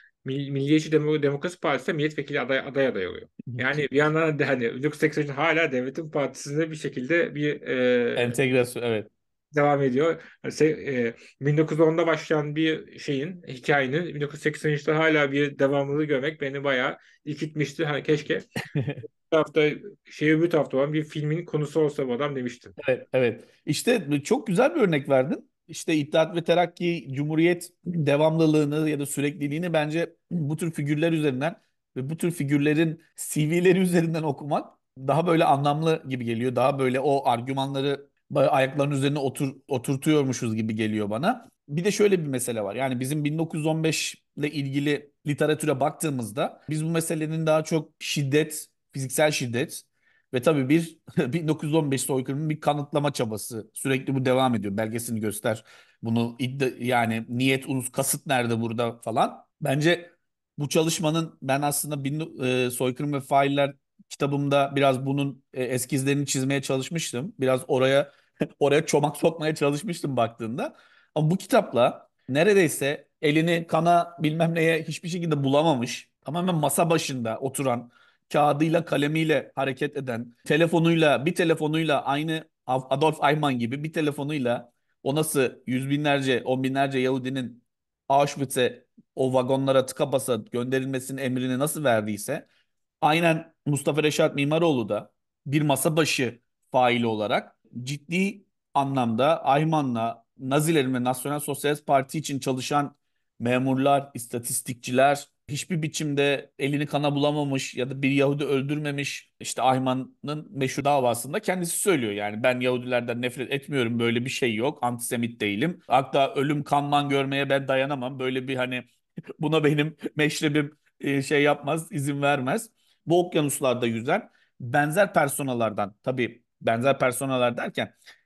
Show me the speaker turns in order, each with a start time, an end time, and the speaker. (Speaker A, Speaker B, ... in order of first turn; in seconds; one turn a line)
Speaker A: 0.2-8.3
Speaker B: 3.5-3.8
Speaker B: 8.2-9.1
Speaker A: 9.5-18.5
Speaker B: 18.7-19.0
Speaker A: 19.1-22.8
Speaker B: 22.8-92.5
Speaker B: 93.0-118.9
Speaker B: 119.4-127.9